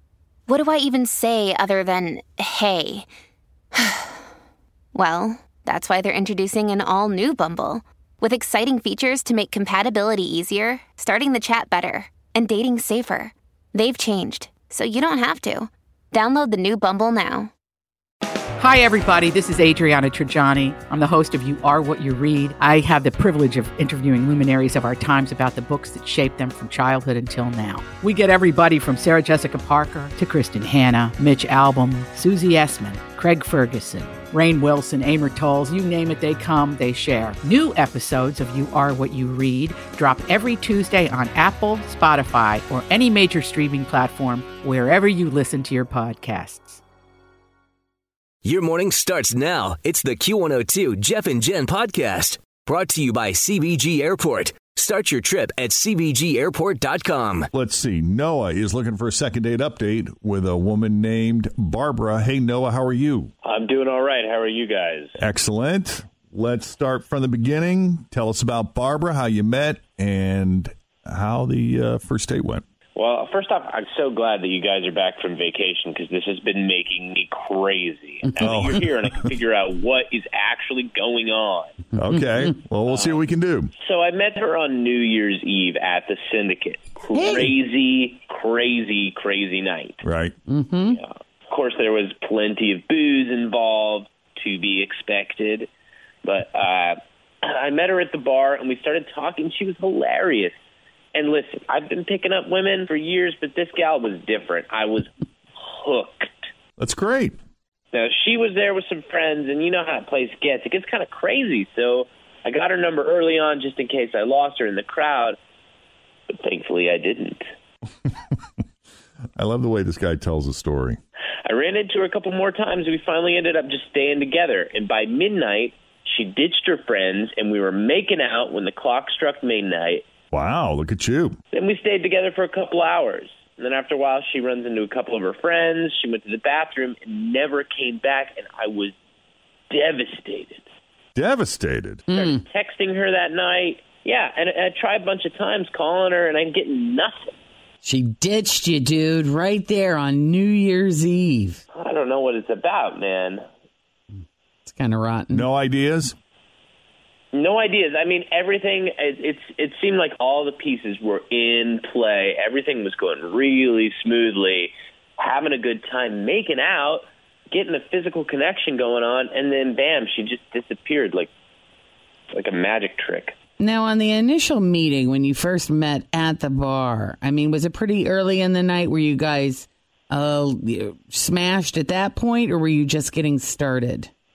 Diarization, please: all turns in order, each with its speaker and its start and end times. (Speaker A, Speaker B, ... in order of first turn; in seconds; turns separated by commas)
Speaker A: 0.5-3.1, Speaker A: 3.7-4.2, Speaker A: 4.9-17.5, Speaker B: 18.6-46.8, Speaker C: 48.4-57.5, Speaker D: 57.5-63.3, Speaker E: 63.4-65.1, Speaker D: 65.2-72.6, Speaker E: 72.9-81.8, Speaker D: 78.4-78.8, Speaker D: 81.9-83.7, Speaker E: 82.9-83.2, Speaker E: 83.8-90.0, Speaker F: 87.1-87.5, Speaker D: 90.0-90.3, Speaker F: 90.5-91.0, Speaker E: 90.9-95.7, Speaker E: 96.2-100.5, Speaker E: 101.1-106.5, Speaker D: 106.8-107.4, Speaker E: 107.9-115.4, Speaker E: 116.3-117.4, Speaker D: 119.4-121.0, Speaker E: 121.5-130.0, Speaker D: 130.3-131.4, Speaker E: 131.5-138.9, Speaker E: 139.7-140.6, Speaker D: 141.1-142.0, Speaker E: 142.1-147.3, Speaker F: 147.8-151.6, Speaker E: 151.7-153.4, Speaker F: 154.6-155.3, Speaker D: 155.3-156.2, Speaker E: 157.3-171.3, Speaker E: 172.3-173.3, Speaker F: 173.6-184.0